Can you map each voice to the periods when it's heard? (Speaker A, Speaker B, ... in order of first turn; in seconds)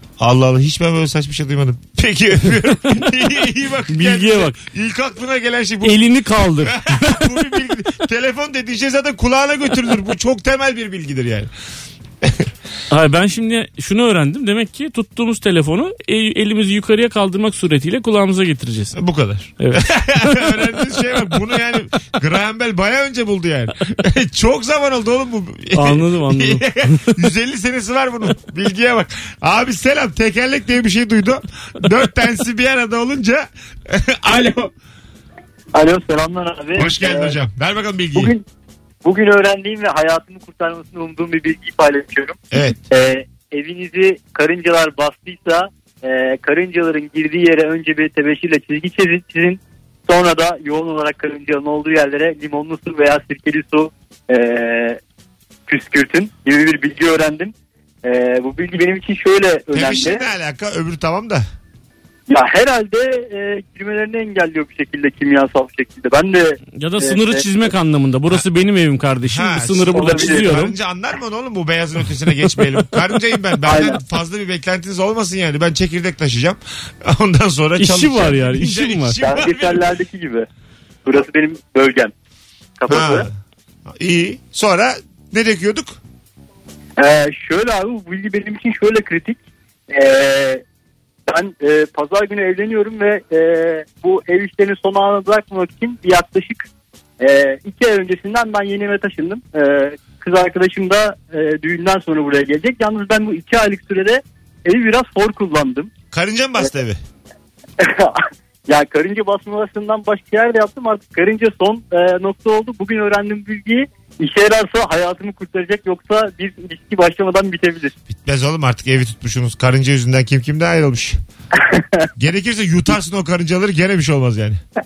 Speaker A: 0.2-6.0, 6.6-11.5, 19.0-34.7, 36.8-38.3, 42.5-42.8, 59.7-61.5, 69.3-79.8, 82.9-83.3, 83.9-86.0, 106.1-107.0, 118.1-121.2, 122.2-124.6
Speaker B: 3.9-4.6, 5.8-7.6, 12.9-19.0, 19.6-20.6, 25.7-27.2, 66.8-70.8, 77.8-79.2
Speaker C: 35.7-37.4, 38.1-38.5, 39.0-42.4, 42.9-55.0, 55.7-60.2, 62.3-67.5, 69.9-70.6, 73.6-74.0, 79.2-80.5, 81.0-82.1, 82.8-83.3, 87.0-89.4, 89.9-90.6, 91.3-96.7, 97.2-105.9, 107.8-117.9, 121.6-122.1